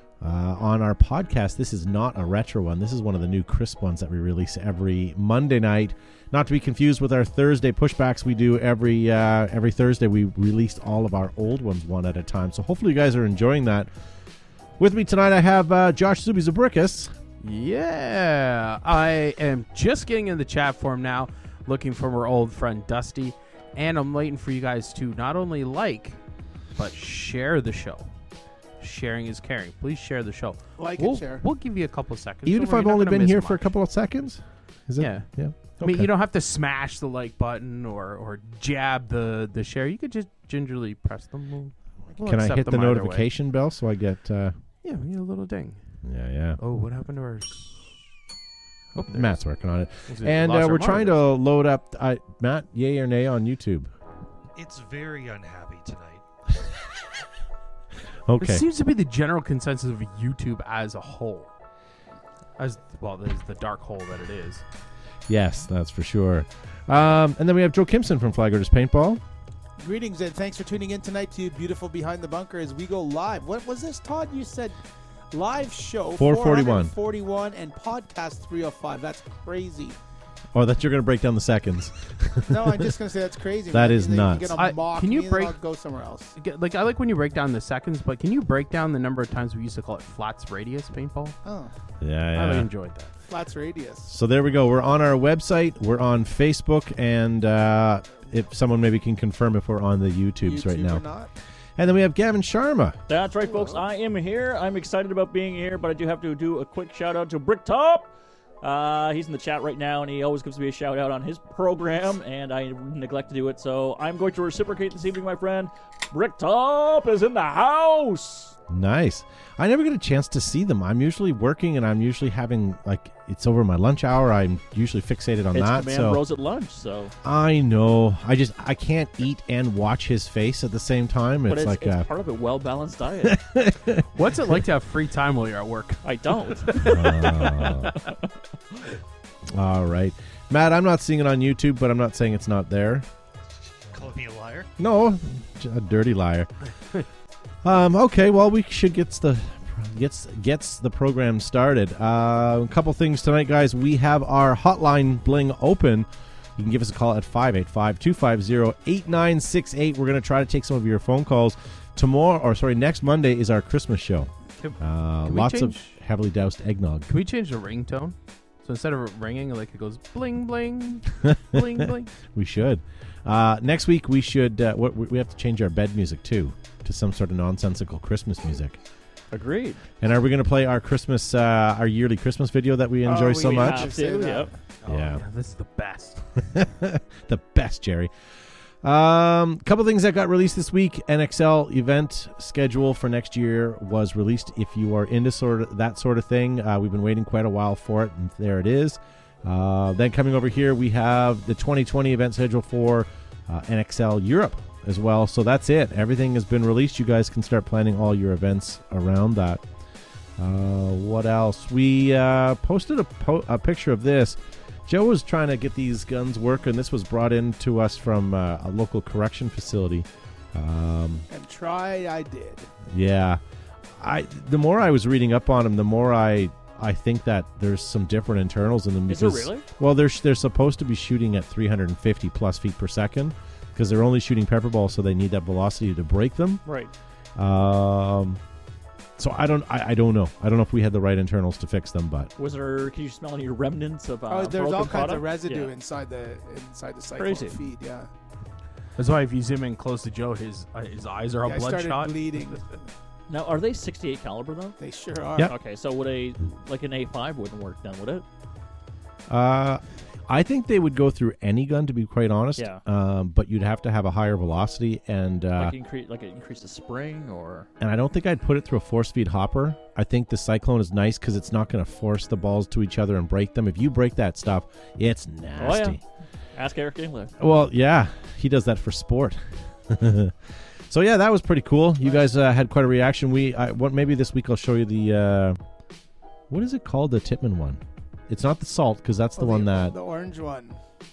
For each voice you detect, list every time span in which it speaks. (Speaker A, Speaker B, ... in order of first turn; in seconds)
Speaker A: 0.2-13.9, 14.8-17.1, 32.5-36.1, 42.2-44.5, 46.0-46.6, 49.1-53.9, 58.3-58.6, 65.3-69.2, 76.2-76.9, 80.5-82.9, 83.7-84.6, 92.0-92.7, 94.1-101.0, 101.8-103.0, 118.7-126.2, 127.2-132.1, 133.2-134.1, 136.8-137.9, 139.5-143.1, 144.8-146.5, 147.6-167.1, 171.2-171.6, 172.3-178.8, 180.0-184.0, 184.8-185.2, 186.5-188.1, 188.8-209.6, 210.4-221.3, 222.9-223.4, 224.0-236.6, 237.3-238.4, 239.2-242.3, 259.3-265.7, 267.8-276.0, 277.4-280.4, 280.9-285.6, 286.5-289.9
Speaker B: 17.4-26.2, 26.7-28.1, 28.8-33.6, 35.0-43.3, 44.8-45.8, 46.6-47.8, 48.9-49.4, 50.1-51.2, 58.4-61.5, 62.6-64.6, 84.5-85.6, 86.3-91.4, 92.3-93.1, 134.1-136.0, 164.6-165.9, 167.1-172.1, 184.8-186.2, 249.0-252.2
Speaker C: 30.8-31.4, 69.8-74.8, 75.3-80.0, 82.5-86.3, 91.4-91.7, 93.3-94.1, 100.4-101.3, 103.4-103.8, 183.0-184.5, 221.3-222.7, 244.3-248.1, 251.4-252.8, 254.8-255.5, 289.4-290.8
Speaker D: 54.5-56.2, 143.9-144.7
Speaker E: 103.1-108.1, 108.6-118.5, 125.5-127.1, 131.5-133.4, 136.0-138.8, 179.3-179.8, 183.4-184.5, 229.1-229.7, 236.6-236.9, 242.4-245.7, 247.2-247.6, 253.3-254.8, 255.4-258.2, 262.6-262.8, 265.6-267.7, 275.6-276.0, 276.5-277.3